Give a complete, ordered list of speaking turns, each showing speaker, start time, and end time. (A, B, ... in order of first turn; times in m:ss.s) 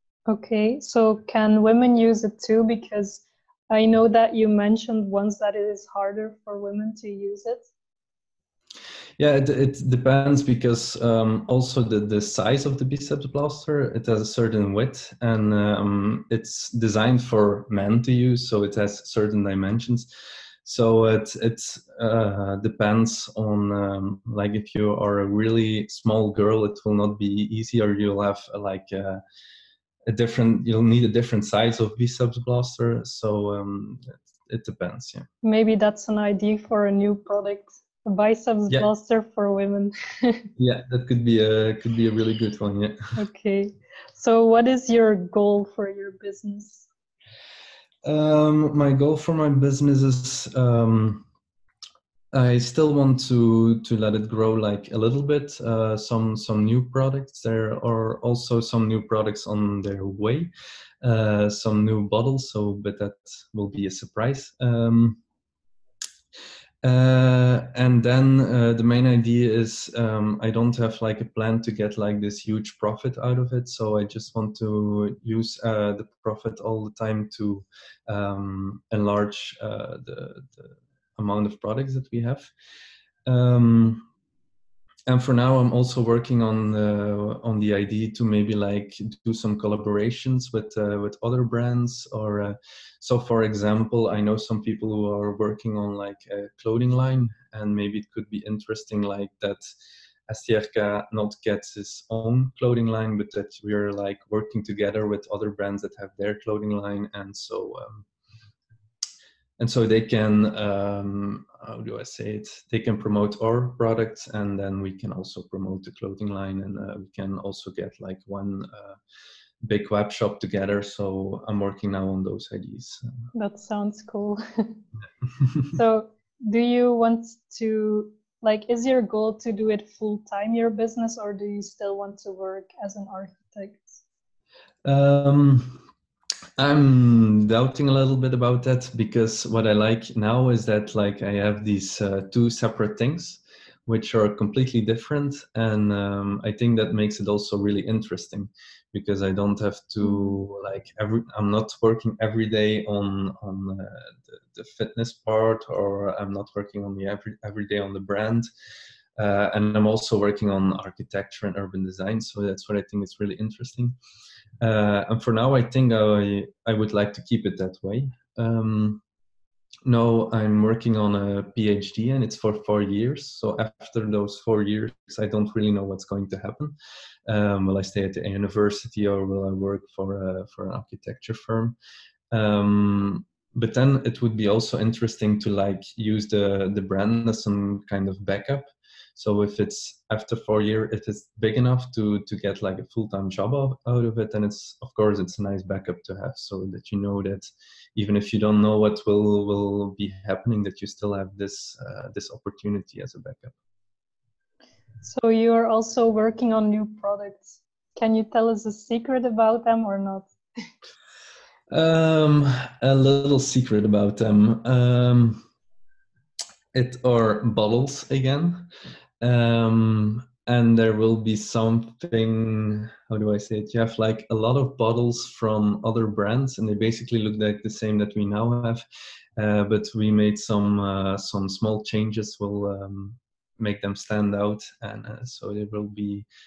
0:00.3-0:07.7 A
0:09.2-0:20.1 B
0:20.6-0:29.2 B
0:30.1-0:35.2 B
0:35.4-0:40.5 A
0:40.6-0:43.0 B
0:43.2-0:46.9 A
0:48.0-0:51.2 B
0:52.3-1:00.5 B
1:01.0-1:05.2 B
1:06.8-1:22.5 B
1:23.2-1:24.0 B
1:25.1-1:39.6 B
1:40.3-1:48.1 B
1:49.6-1:59.0 B
1:59.6-2:03.0 B
2:03.3-2:04.8 A
2:05.7-2:14.0 A
2:14.8-2:15.8 B
2:16.6-2:38.5 B
2:30.0-2:30.4 A
2:39.2-2:44.0 B
2:44.6-2:49.0 B
2:49.8-2:56.7 B
2:57.2-3:01.8 B
3:02.3-3:23.5 B
3:25.0-3:30.3 A
3:31.7-3:35.4 B
3:36.7-3:38.7 B
3:39.2-3:48.8 B
3:49.4-3:56.2 B